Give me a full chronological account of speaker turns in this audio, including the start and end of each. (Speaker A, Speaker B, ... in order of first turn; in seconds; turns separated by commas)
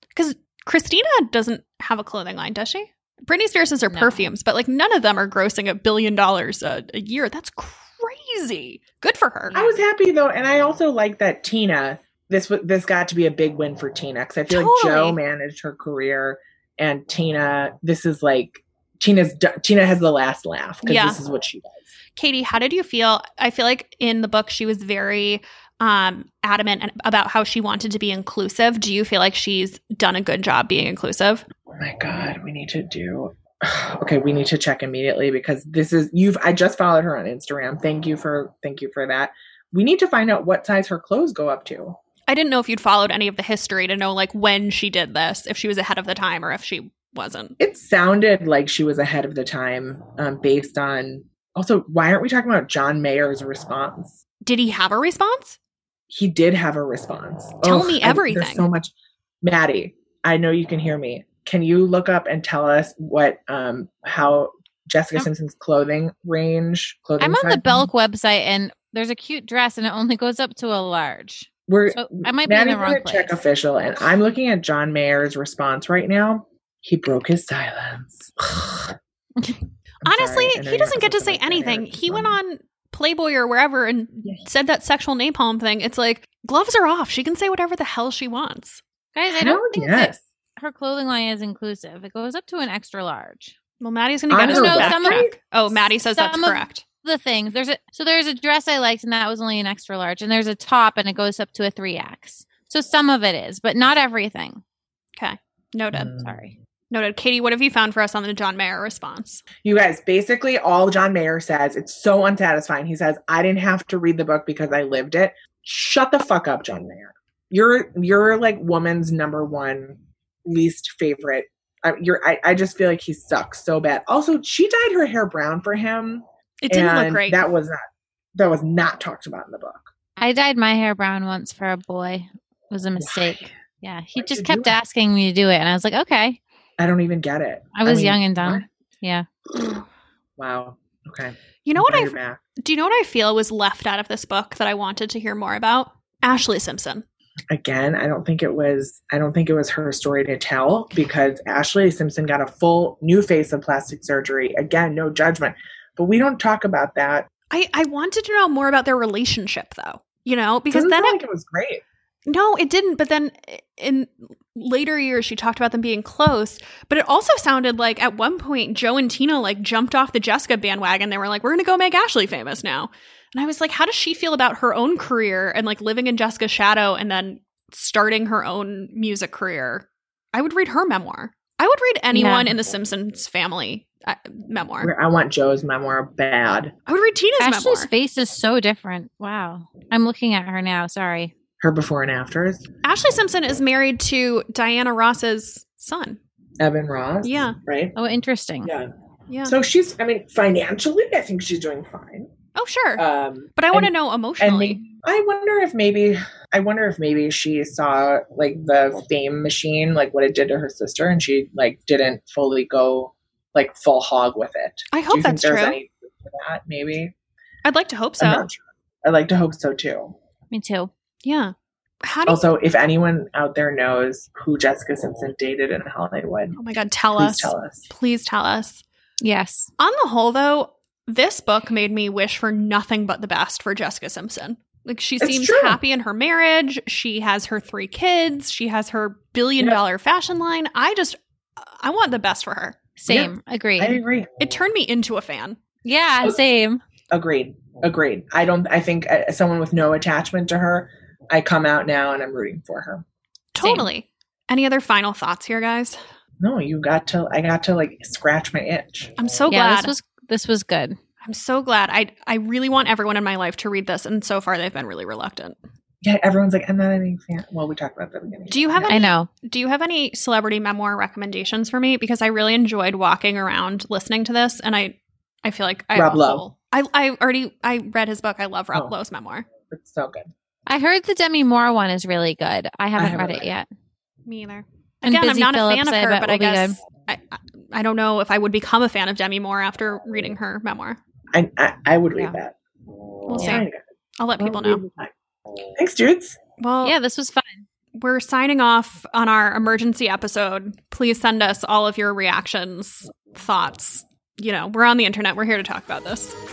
Speaker A: 0.1-9.6, Speaker B: 3.9-4.3, Speaker C: 9.5-21.9, Speaker B: 9.6-9.8, Speaker A: 14.5-15.2, Speaker A: 20.8-21.2, Speaker A: 22.2-31.4, Speaker C: 31.8-42.0, Speaker A: 42.3-47.5, Speaker C: 47.6-54.2, Speaker A: 54.4-55.6, Speaker C: 56.1-58.9, Speaker A: 57.6-58.7, Speaker C: 59.4-67.9, Speaker B: 67.2-73.4, Speaker C: 71.7-79.0, Speaker C: 80.0-82.4, Speaker A: 80.0-88.8, Speaker B: 89.1-93.5, Speaker C: 89.3-90.2, Speaker A: 93.8-96.8, Speaker C: 94.3-95.4, Speaker B: 94.4-104.6, Speaker A: 105.2-106.1, Speaker C: 105.9-106.3, Speaker B: 106.2-106.5, Speaker A: 106.9-109.4, Speaker C: 109.6-127.8, Speaker A: 126.6-127.5, Speaker C: 128.3-129.9, Speaker B: 130.2-136.4, Speaker C: 133.0-133.5, Speaker C: 134.2-134.8, Speaker C: 136.8-138.7, Speaker B: 137.8-139.3, Speaker C: 140.4-142.4, Speaker A: 141.7-147.1, Speaker C: 147.5-157.3, Speaker A: 157.5-161.2, Speaker C: 160.7-161.8, Speaker A: 162.3-184.9, Speaker B: 182.1-182.5, Speaker C: 184.8-186.8, Speaker A: 186.9-187.9, Speaker B: 187.4-191.3, Speaker C: 191.6-192.7, Speaker A: 192.8-196.2, Speaker C: 196.6-198.0, Speaker A: 197.2-197.6, Speaker B: 198.0-198.7, Speaker C: 198.6-198.9, Speaker A: 199.3-199.6, Speaker C: 199.5-202.3, Speaker A: 202.6-203.0, Speaker C: 203.0-217.1, Speaker A: 203.6-204.8, Speaker A: 214.9-215.8, Speaker A: 217.6-218.5, Speaker C: 218.2-220.2, Speaker B: 220.5-220.9, Speaker A: 221.2-222.5, Speaker C: 222.3-226.6, Speaker A: 226.6-228.8, Speaker C: 227.1-227.9, Speaker B: 229.2-229.7, Speaker A: 229.8-242.8, Speaker C: 235.2-235.8, Speaker B: 243.0-244.0, Speaker C: 243.1-244.3, Speaker A: 244.4-245.6, Speaker B: 245.8-246.8, Speaker C: 247.1-253.1, Speaker A: 253.5-256.0, Speaker B: 253.6-253.9, Speaker C: 256.4-259.1, Speaker A: 259.2-259.9, Speaker B: 259.5-261.0, Speaker A: 261.2-265.6, Speaker C: 266.0-269.0, Speaker A: 268.5-279.5, Speaker B: 268.9-269.3, Speaker C: 275.9-276.4, Speaker C: 279.7-280.3, Speaker B: 280.7-283.7, Speaker C: 283.0-283.5, Speaker A: 284.3-291.0, Speaker B: 285.0-286.8, Speaker C: 291.3-292.6, Speaker C: 293.2-293.8, Speaker A: 293.3-293.7, Speaker A: 294.2-294.8, Speaker C: 294.4-295.1, Speaker C: 295.8-296.4, Speaker A: 296.6-297.0, Speaker B: 296.8-297.7, Speaker A: 297.9-306.4